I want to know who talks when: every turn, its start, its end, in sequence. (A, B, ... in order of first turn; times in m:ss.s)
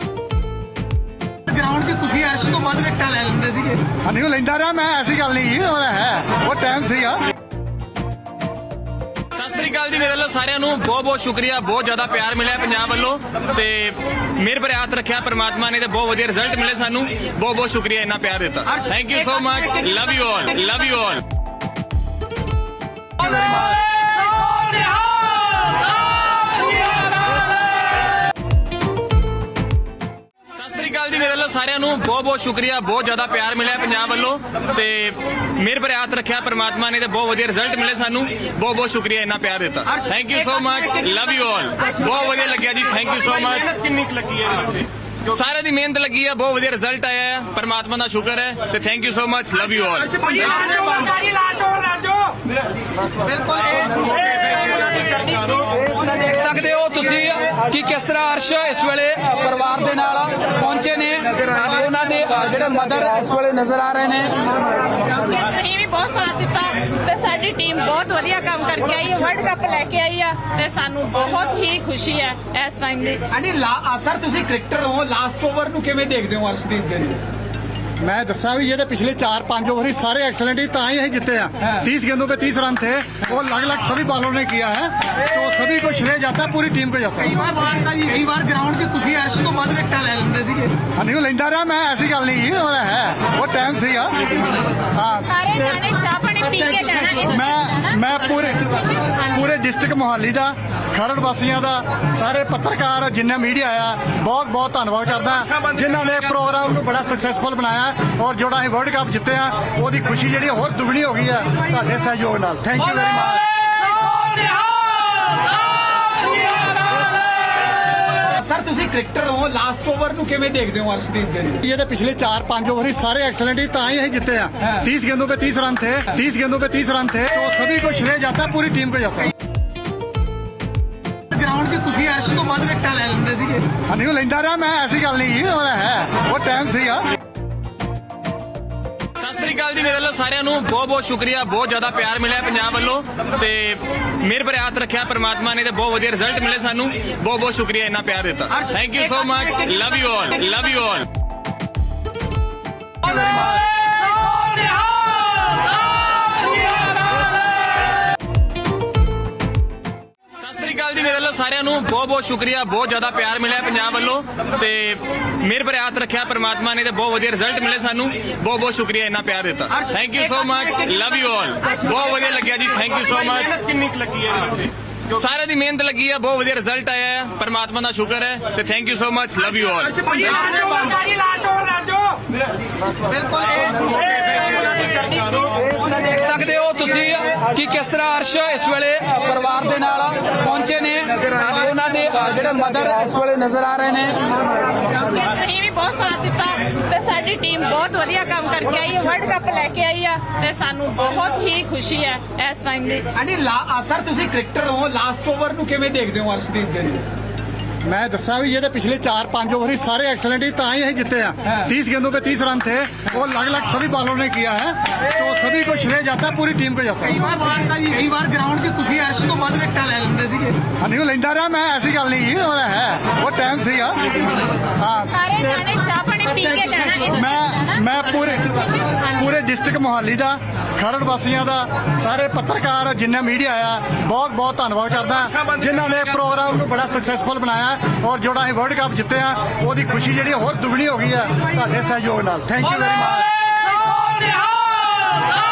0:01.5-0:03.8 A
0:04.0-0:07.2 B
0:09.3-0:21.2 C
0:23.2-0:23.8 B
0:30.5-0:51.1 C
0:50.2-0:52.3 A
0:53.3-0:54.1 A
0:55.8-1:04.5 D
1:05.0-1:13.2 E
1:13.3-1:17.2 A
1:18.0-1:27.4 B
1:27.3-1:30.7 A
1:31.0-1:34.3 B
1:34.9-1:35.8 B
1:35.3-1:37.8 E
1:37.3-1:53.5 B
1:58.2-2:01.6 A
2:01.6-2:09.3 B
2:11.3-2:13.7 A
2:13.8-2:17.1 B
2:19.2-2:31.1 C
2:33.0-2:33.7 B
2:40.4-2:54.5 C
2:55.1-3:00.5 C
3:00.0-3:02.2 A
3:03.3-3:03.9 A
3:05.7-3:14.3 D
3:14.8-3:23.0 E
3:23.2-3:27.0 A
3:27.8-3:37.2 B
3:37.2-3:40.6 A
3:40.8-3:44.2 B
3:44.8-3:45.6 B
3:45.1-3:47.4 E
3:47.1-3:48.6 B
3:49.1-4:03.3 B